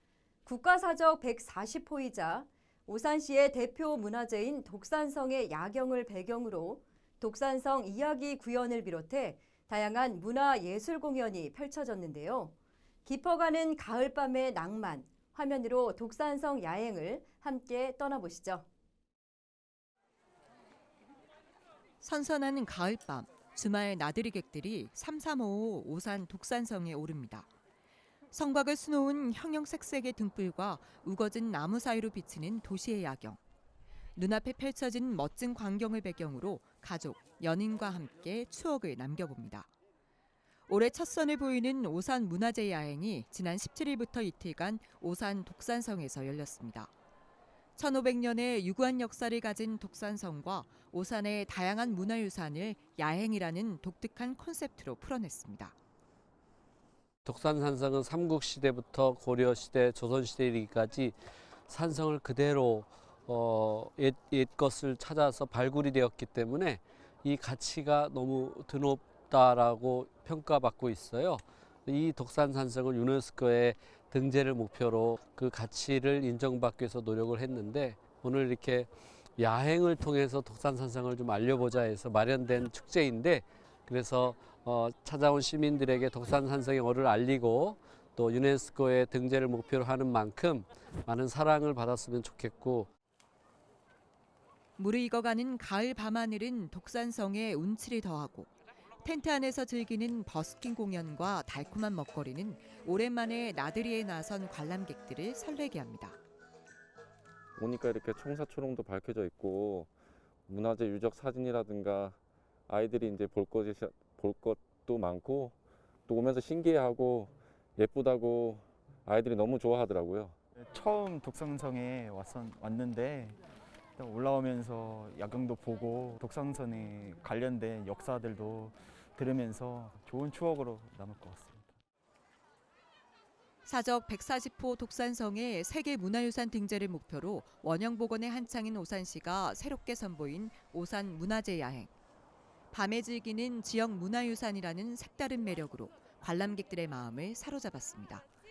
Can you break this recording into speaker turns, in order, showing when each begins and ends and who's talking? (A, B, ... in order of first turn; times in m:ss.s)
0:00.4-0:12.5 A
0:13.0-0:18.6 A
0:22.0-0:27.5 B
0:28.3-0:33.4 B
0:34.2-0:39.7 B
0:40.7-0:46.9 B
0:47.8-0:55.7 B
0:57.2-1:01.2 C
1:01.7-1:32.9 C
1:34.8-1:46.2 B
1:47.6-1:49.9 D
1:50.5-1:52.2 D
1:52.7-1:55.5 D
1:56.1-2:00.3 D
2:00.6-2:03.4 E
2:04.0-2:11.7 E
2:13.6-2:21.9 B
2:22.7-2:28.2 B